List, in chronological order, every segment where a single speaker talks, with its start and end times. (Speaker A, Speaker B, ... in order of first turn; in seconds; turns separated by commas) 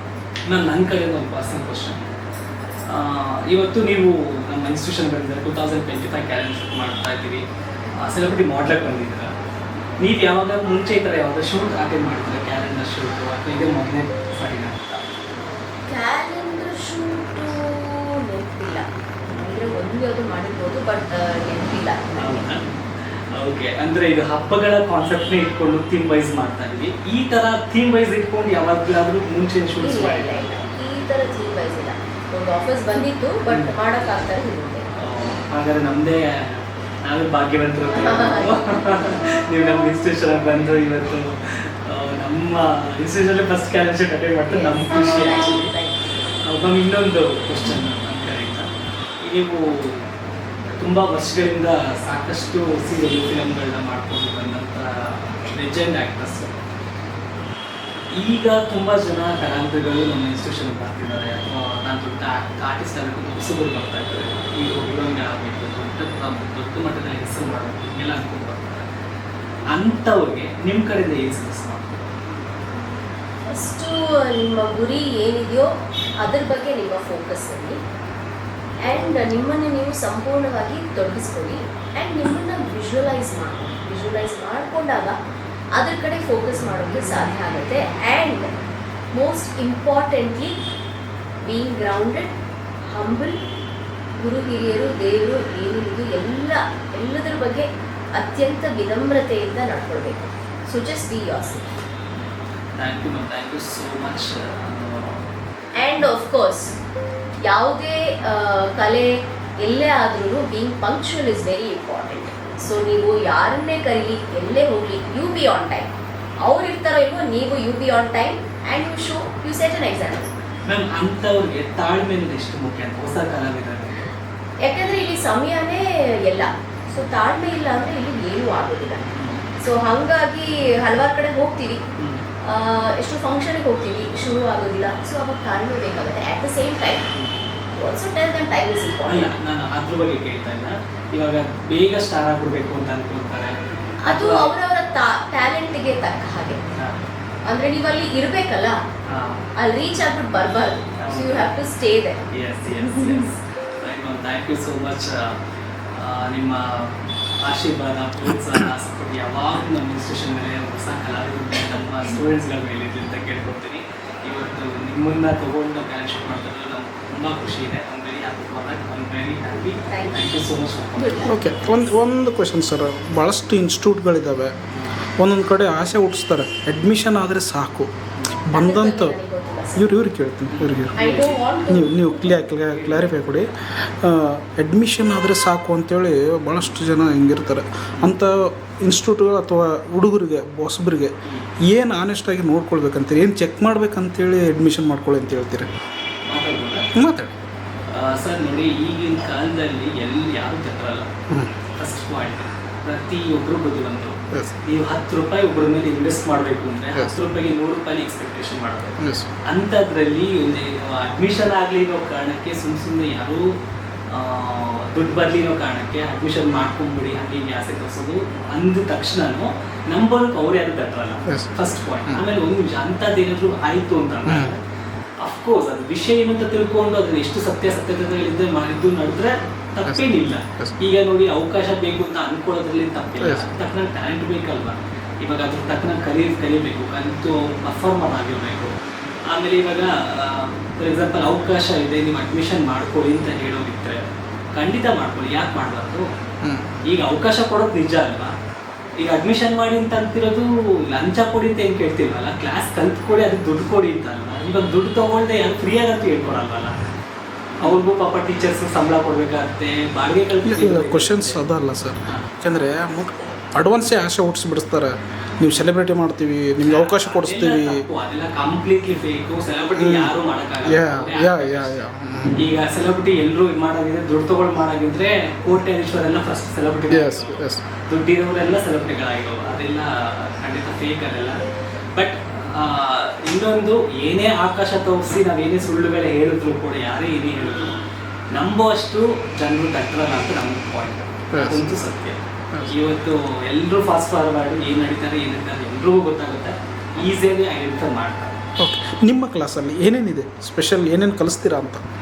Speaker A: 0.5-2.0, Speaker A: 2.9-7.4, Speaker A: 8.0-9.3, Speaker A: 10.0-15.0, Speaker B: 15.9-22.4, Speaker A: 22.2-22.6, Speaker A: 23.4-30.4, Speaker B: 29.8-34.9, Speaker A: 35.0-45.7, Speaker B: 37.9-38.5, Speaker B: 44.5-46.1, Speaker A: 46.4-48.7, Speaker A: 49.2-50.1, Speaker A: 50.8-56.6, Speaker A: 58.1-68.9, Speaker A: 69.7-72.0, Speaker B: 73.5-75.7, Speaker B: 76.2-77.8, Speaker B: 78.8-85.1, Speaker B: 85.7-88.4, Speaker B: 89.1-90.5, Speaker B: 91.4-92.3, Speaker B: 92.9-93.3, Speaker B: 94.2-101.6, Speaker A: 102.8-105.2, Speaker B: 105.8-106.7, Speaker B: 107.5-109.1, Speaker B: 109.6-115.9, Speaker B: 116.4-120.3, Speaker A: 120.7-124.0, Speaker B: 124.6-129.0, Speaker A: 129.1-129.4, Speaker B: 129.6-131.8, Speaker B: 132.5-137.0, Speaker B: 137.7-139.3, Speaker A: 139.1-144.5, Speaker B: 144.0-146.6, Speaker A: 146.8-147.0, Speaker B: 147.5-148.8, Speaker A: 149.1-149.4, Speaker B: 149.6-152.2, Speaker A: 151.0-151.5, Speaker A: 152.3-155.4, Speaker B: 152.8-153.2, Speaker A: 155.9-171.3, Speaker C: 158.2-158.7, Speaker B: 169.9-170.4, Speaker B: 171.0-171.6, Speaker C: 171.2-174.5, Speaker A: 174.7-175.0, Speaker C: 175.2-177.9, Speaker C: 178.5-179.2, Speaker B: 178.5-180.0, Speaker C: 179.8-180.9, Speaker A: 180.5-181.4, Speaker B: 181.0-182.0, Speaker C: 181.7-188.3, Speaker A: 182.0-183.5, Speaker C: 188.8-191.1, Speaker C: 191.7-195.7, Speaker A: 196.3-196.8, Speaker C: 196.9-197.3, Speaker A: 197.9-201.1, Speaker A: 201.8-208.9, Speaker C: 206.9-207.2, Speaker C: 209.0-209.3, Speaker A: 209.5-213.4, Speaker A: 214.1-224.6, Speaker C: 221.3-221.5, Speaker C: 224.2-224.5, Speaker A: 225.2-238.7, Speaker C: 229.8-230.8, Speaker C: 233.2-233.5, Speaker A: 239.3-244.0, Speaker A: 244.5-246.0, Speaker C: 246.4-246.7, Speaker A: 246.9-248.3, Speaker A: 249.0-256.7, Speaker A: 257.6-261.4, Speaker C: 260.4-267.8, Speaker A: 266.6-271.8, Speaker C: 269.8-270.1, Speaker C: 270.6-272.4, Speaker A: 272.4-279.9, Speaker C: 276.9-277.6, Speaker A: 280.4-281.4, Speaker A: 281.9-287.8, Speaker A: 288.3-292.2, Speaker C: 291.3-291.8, Speaker A: 292.7-298.3, Speaker C: 298.6-301.8